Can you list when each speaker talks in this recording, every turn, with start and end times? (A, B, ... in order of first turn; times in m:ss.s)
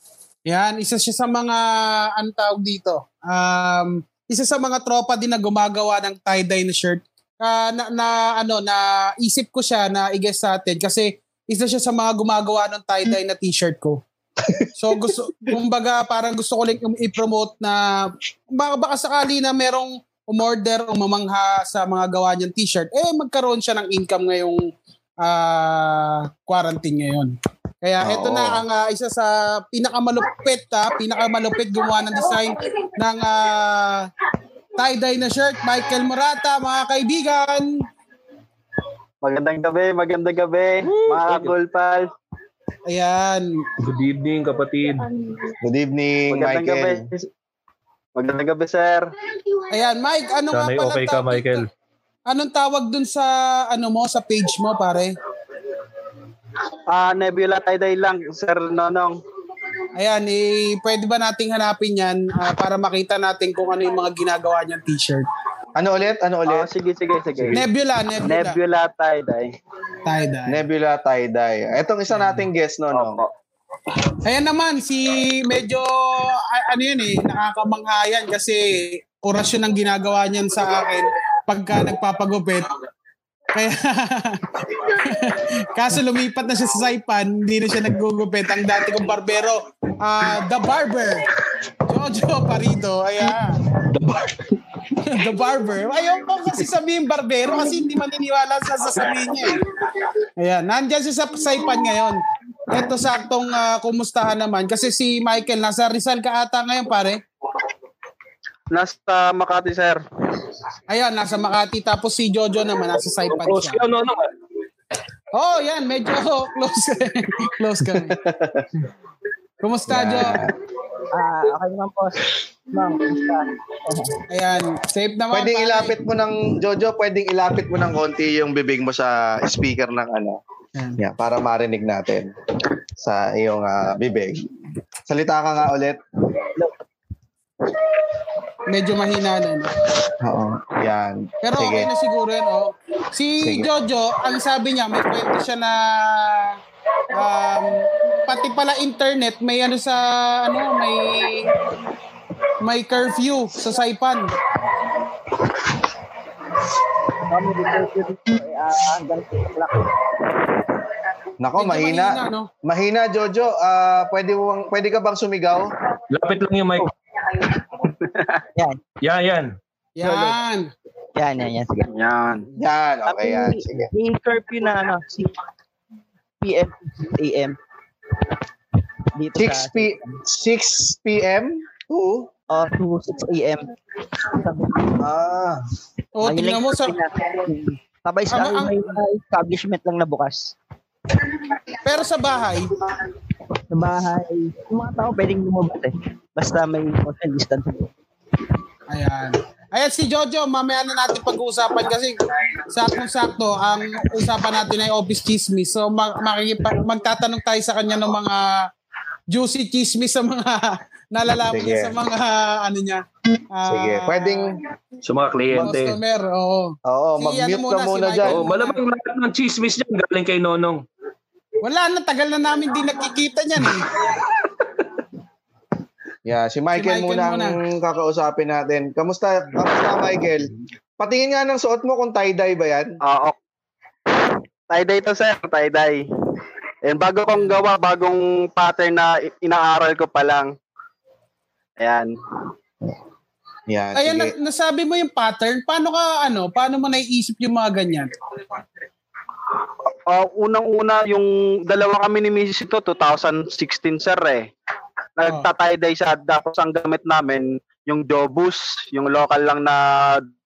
0:00.5-0:14.0 A
0:14.4-0:15.5 B
0:14.7-0:24.6 A
0:25.2-0:34.1 A
0:28.0-0:28.6 B
0:34.8-0:37.8 A
0:39.2-0:42.1 C
0:40.9-0:41.5 D
0:42.9-0:43.5 A
0:43.8-0:45.1 D
0:45.6-0:47.1 B
0:46.3-0:47.3 C
0:48.2-0:49.1 C
0:49.7-0:51.6 A
0:50.5-0:51.6 D
0:52.3-0:55.2 A
0:56.9-0:59.2 C
1:00.0-1:05.3 A
1:05.8-1:06.7 B
1:06.5-1:07.6 C
1:07.5-1:08.6 A
1:08.2-1:09.5 C
1:10.0-1:10.6 A
1:10.5-1:13.2 B
1:12.9-1:13.3 C
1:14.2-1:22.8 A
1:23.5-1:31.3 A
1:31.8-1:33.6 A
1:33.8-1:34.6 D
1:35.0-1:39.6 A
1:40.4-1:47.2 A
1:48.7-1:50.0 C
1:50.9-1:53.8 A
1:53.3-1:54.3 D
1:55.3-1:58.2 A
1:58.2-1:58.7 B
1:59.6-2:00.4 A
1:59.9-2:00.5 B
2:01.1-2:04.2 E
2:04.3-2:06.0 A
2:05.3-2:10.4 B
2:11.0-2:12.3 B
2:13.0-2:14.4 B
2:15.1-2:16.0 B
2:18.7-2:19.7 A
2:20.2-2:21.9 B
2:21.4-2:26.6 A
2:23.4-2:23.7 B
2:27.1-2:31.5 A
2:32.6-2:34.4 A
2:37.2-2:40.6 E
2:41.4-2:45.7 B
2:41.6-2:42.5 A
2:46.1-2:46.9 D
2:48.0-2:48.4 C
2:49.0-2:49.5 D
2:50.0-2:50.7 A
2:50.0-2:50.3 B
2:51.2-2:51.9 E
2:51.8-2:52.5 C
2:52.6-2:53.9 B
2:53.1-2:55.3 E
2:56.4-2:57.6 E
2:59.1-3:00.2 E
2:59.3-3:02.3 B
3:02.5-3:03.7 E
3:04.2-3:05.0 E
3:05.0-3:05.6 B
3:06.2-3:07.0 A
3:06.2-3:10.5 E
3:08.3-3:08.9 A
3:11.8-3:12.7 A
3:13.7-3:17.9 E
3:18.9-3:28.7 A
3:29.3-3:34.6 A
3:31.5-3:32.0 B
3:33.6-3:34.6 B
3:35.0-3:36.0 D
3:35.6-3:38.8 A
3:36.8-3:38.4 B
3:38.2-3:40.8 D
3:41.6-3:43.9 A
3:46.2-3:53.0 B
3:46.8-3:47.6 A
3:53.0-3:53.4 C
3:54.1-3:56.0 C
3:56.8-4:00.5 C
4:01.8-4:02.1 C
4:03.7-4:04.3 B
4:03.9-4:08.1 A
4:10.1-4:14.5 C
4:15.2-4:20.3 C